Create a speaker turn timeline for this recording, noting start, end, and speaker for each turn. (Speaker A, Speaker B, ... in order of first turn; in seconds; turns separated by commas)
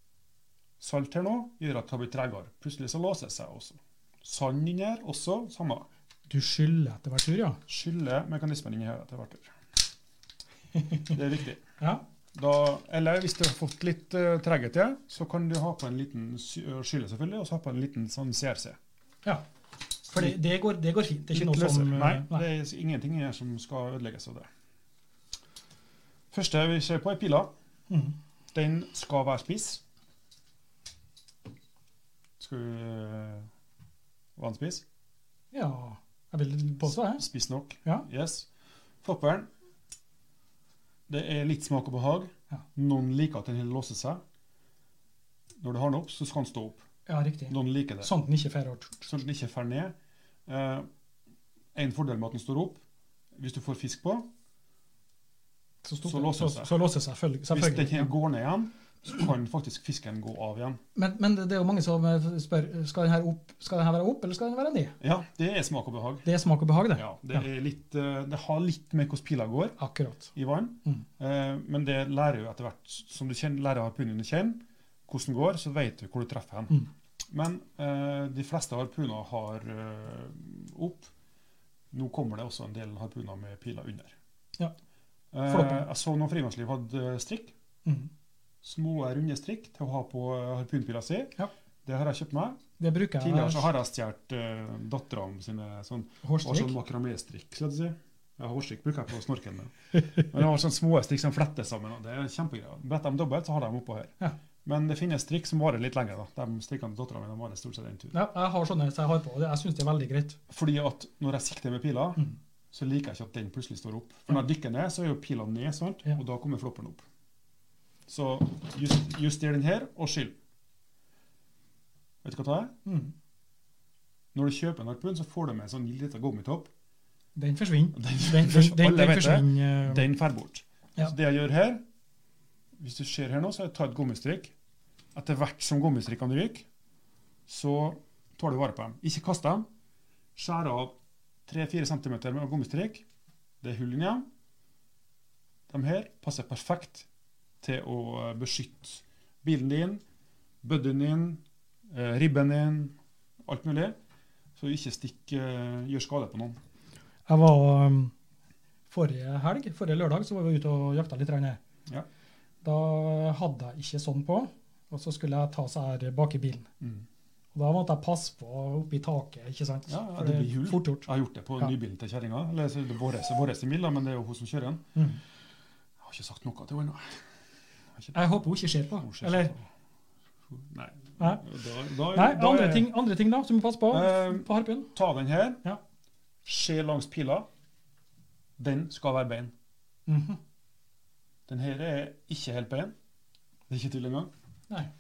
Speaker A: 0.8-5.9, Speaker B: 6.3-7.6, Speaker A: 7.7-9.5, Speaker A: 11.1-11.6, Speaker A: 12.3-18.8, Speaker B: 20.1-22.4, Speaker A: 21.3-24.5, Speaker A: 26.3-27.5, Speaker B: 27.9-28.2, Speaker A: 28.5-29.8, Speaker A: 32.4-33.5, Speaker A: 34.4-34.9, Speaker B: 35.5-37.2, Speaker A: 36.9-38.5, Speaker A: 39.0-39.5, Speaker A: 41.1-44.2, Speaker A: 45.6-46.8, Speaker B: 47.1-49.0, Speaker A: 47.5-48.1, Speaker A: 49.0-49.9, Speaker A: 50.5-50.9, Speaker A: 51.8-52.8, Speaker A: 53.4-54.3, Speaker B: 55.8-58.1, Speaker A: 56.0-56.7, Speaker A: 57.5-60.8, Speaker B: 61.0-65.0, Speaker A: 65.0-66.3, Speaker B: 66.2-67.4, Speaker A: 67.0-69.8, Speaker B: 69.8-70.3, Speaker A: 70.3-81.1, Speaker A: 81.9-84.2, Speaker A: 85.3-87.5, Speaker B: 85.5-85.8, Speaker A: 88.6-92.6, Speaker B: 92.8-93.7, Speaker A: 93.2-104.1, Speaker B: 96.2-96.8, Speaker A: 104.7-108.1, Speaker B: 108.1-110.4, Speaker A: 110.5-117.0, Speaker A: 118.1-120.4, Speaker A: 122.2-122.7, Speaker B: 122.9-123.1, Speaker A: 124.3-126.7, Speaker B: 127.4-130.1, Speaker A: 127.9-131.8, Speaker A: 132.8-134.5, Speaker A: 135.1-136.7, Speaker A: 137.5-139.7, Speaker A: 140.4-143.0, Speaker A: 143.6-144.3, Speaker A: 145.7-147.1, Speaker A: 147.6-150.0, Speaker A: 150.6-153.9, Speaker A: 154.6-156.6, Speaker B: 157.3-158.1, Speaker B: 158.9-161.6, Speaker B: 162.6-166.7, Speaker A: 166.8-167.1, Speaker B: 167.5-171.1, Speaker A: 169.9-174.9, Speaker B: 175.0-175.2, Speaker A: 176.0-177.2, Speaker B: 178.1-179.5, Speaker A: 179.0-179.7, Speaker A: 180.5-182.9, Speaker B: 182.1-184.9, Speaker A: 183.9-185.6, Speaker A: 186.4-187.5, Speaker A: 188.6-189.5, Speaker B: 190.1-190.4, Speaker A: 191.5-192.9, Speaker A: 193.7-194.3